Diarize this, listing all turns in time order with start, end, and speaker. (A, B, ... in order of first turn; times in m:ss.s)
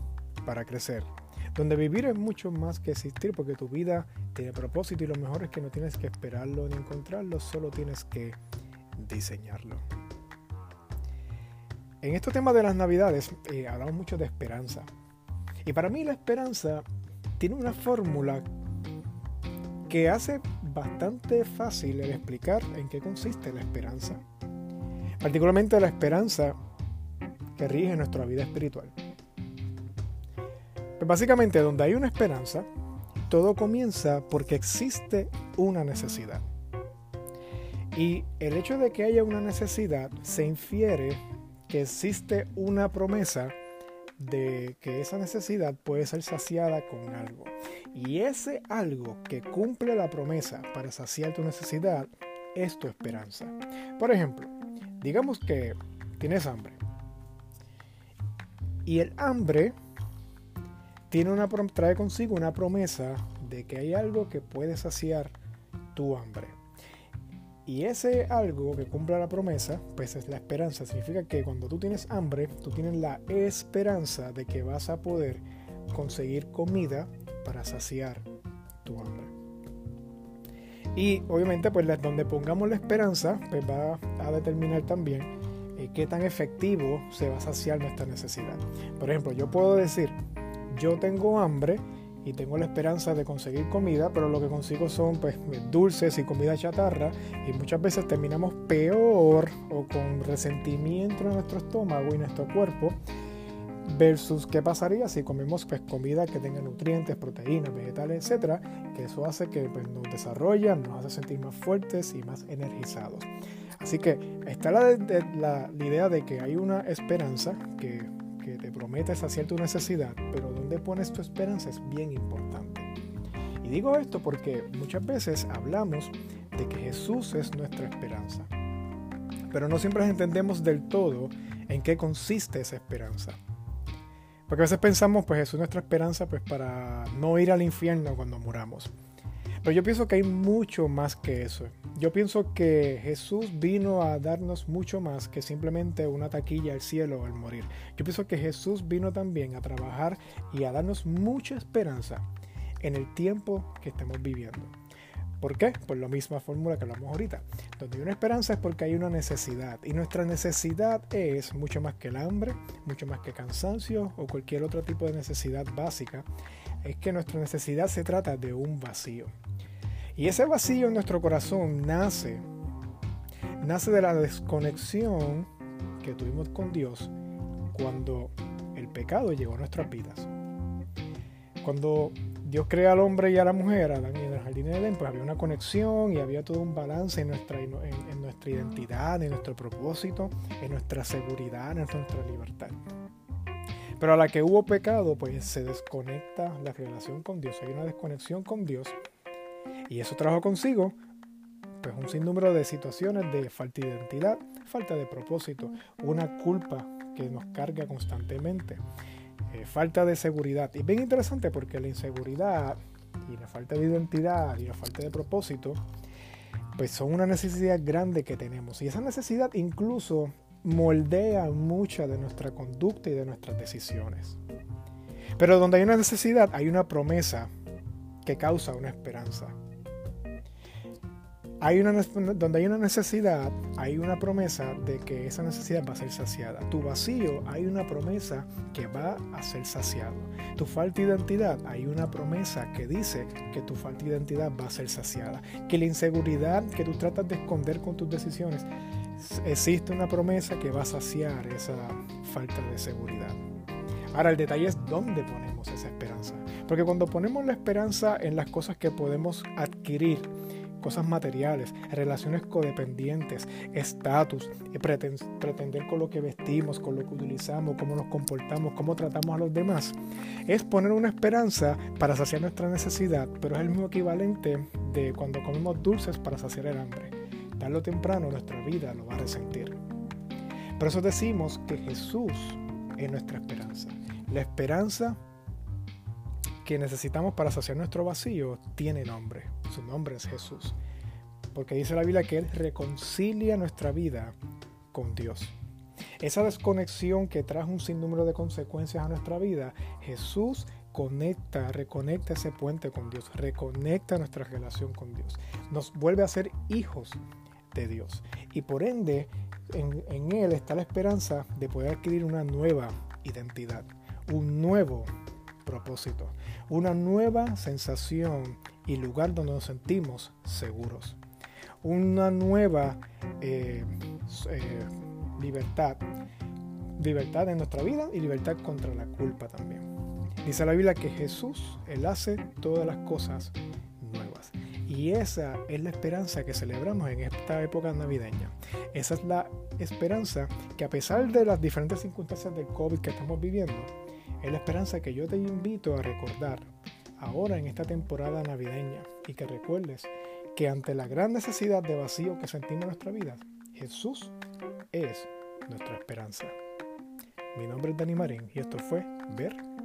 0:00.4-0:08.4 A
0:09.0-0:09.8 A
0:12.0-0:14.9 A
0:15.6-0:16.8 A
0:17.4-0:18.4 A
0:19.9-0:24.2 A
0:25.2-0:26.6 A
0:27.6-0:29.0 A
0:31.0-0:32.7 A
0:33.3-0:36.4 A
0:37.9-0:43.6 A
0:44.2-0:56.8 A
0:58.9-0:59.8 A
1:01.1-1:05.4 A
1:05.9-1:06.6 A
1:07.7-1:18.3 A
1:18.8-1:19.3 A
1:21.0-1:30.2 A
1:30.7-1:43.0 A
1:43.8-2:02.9 A
2:03.6-2:08.5 A
2:09.5-2:13.4 A
2:14.5-2:18.9 A
2:19.6-2:32.3 A
2:32.8-2:34.7 A
2:35.4-2:46.3 A
2:46.8-2:49.3 A
2:50.2-2:52.5 A
2:53.6-2:55.5 A
2:56.0-2:57.1 A
2:57.7-3:00.3 A
3:01.6-3:12.8 A
3:14.0-3:19.0 A
3:19.9-3:21.0 A
3:21.8-3:28.8 A
3:29.5-3:35.8 A
3:36.8-3:44.4 A
3:45.4-3:47.5 A
3:48.2-3:49.6 A
3:51.6-4:13.4 A
4:14.1-4:39.8 A
4:40.8-4:45.2 A
4:46.6-4:50.8 A
4:51.5-4:54.4 A
4:54.9-4:55.6 A
4:56.2-5:07.2 A
5:07.7-5:15.1 A
5:15.6-5:21.2 A
5:21.8-5:26.1 A
5:27.0-5:29.8 A
5:30.4-5:54.4 A
5:54.9-5:56.6 A
5:57.5-5:59.6 A